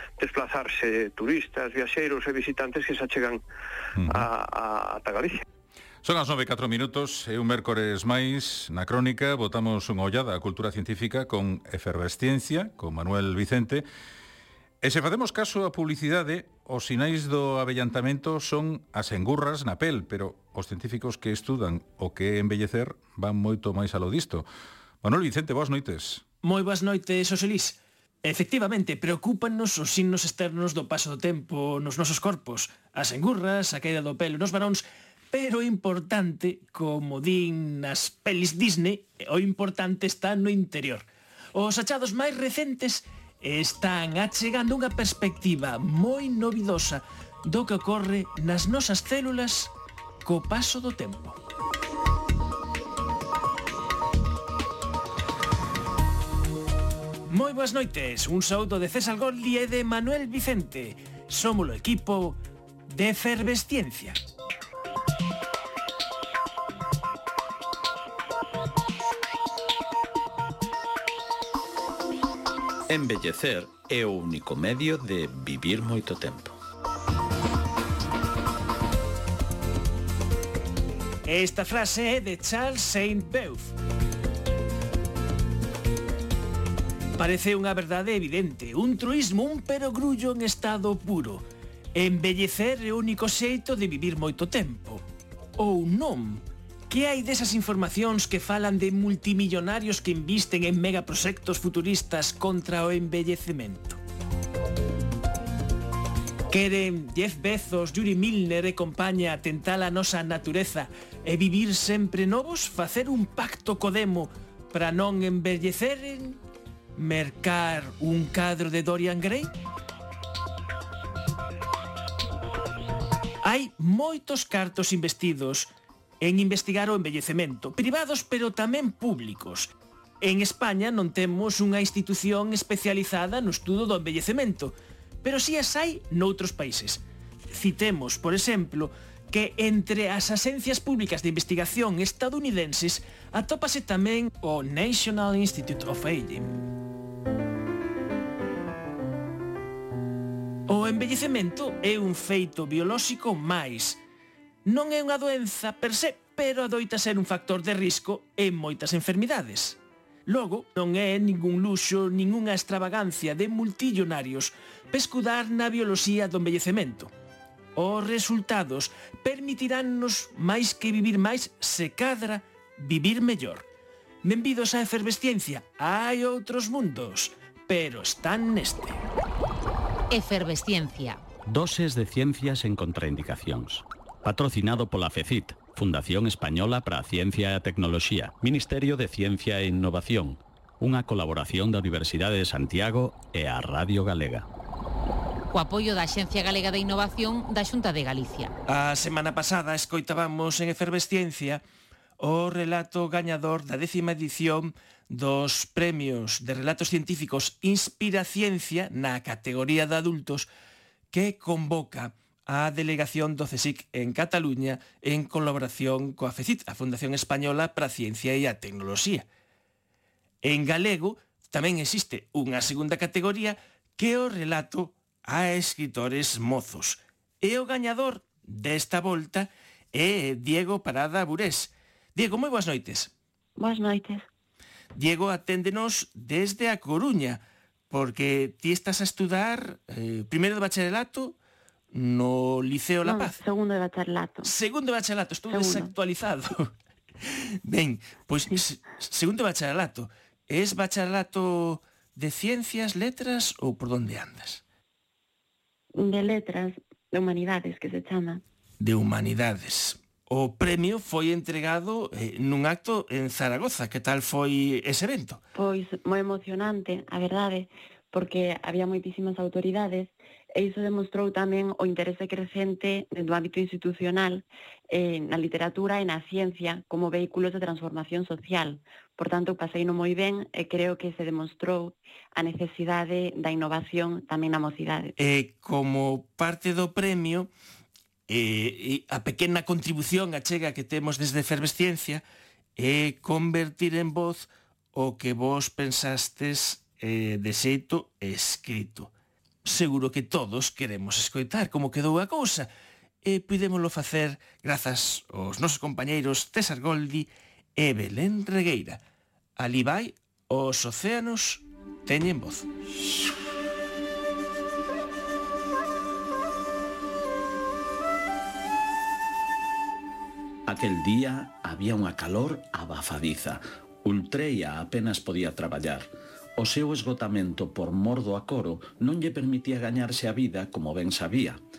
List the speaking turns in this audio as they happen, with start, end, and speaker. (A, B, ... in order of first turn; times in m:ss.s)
0:00.2-0:03.4 A
0:04.0-0:04.2 B
0:04.0-0:05.4 A
0:06.0-0:13.8 B
0:14.8-0:24.5 B
0:25.0-0:26.2 B
0:26.4-0:49.7 C
0:50.2-0:51.4 C
0:57.3-1:02.4 C
1:02.9-1:04.2 C
1:12.9-1:16.6 D
1:21.2-1:23.7 C
1:27.2-1:31.4 C
1:31.9-1:35.0 C
1:35.6-1:44.0 C
1:46.5-1:56.4 C
1:57.0-1:59.5 C
2:03.4-2:05.7 C
2:06.2-2:09.7 C
2:10.2-2:26.5 C
2:30.7-2:34.0 C
2:34.6-2:47.1 C
2:47.8-2:53.6 C
2:54.2-2:59.0 C
3:00.1-3:01.2 E
3:01.4-3:14.5 D
3:15.5-3:18.5 E
3:18.7-3:21.6 C
3:22.2-3:30.5 C
3:31.1-3:39.2 C
3:40.4-3:53.1 C
3:53.6-3:54.2 F
3:54.9-4:01.3 C
4:01.9-4:03.4 C
4:03.0-4:04.5 F
4:04.4-4:06.7 C
4:05.5-4:05.9 F
4:07.6-4:14.6 C
4:15.9-4:18.4 F
4:18.8-4:25.4 C
4:25.6-4:45.1 F
4:45.2-4:47.5 C
4:48.3-4:52.2 C
4:52.8-4:59.1 C
4:59.6-5:02.7 C
5:03.2-5:09.0 C
5:09.6-5:12.6 C
5:20.6-5:31.6 D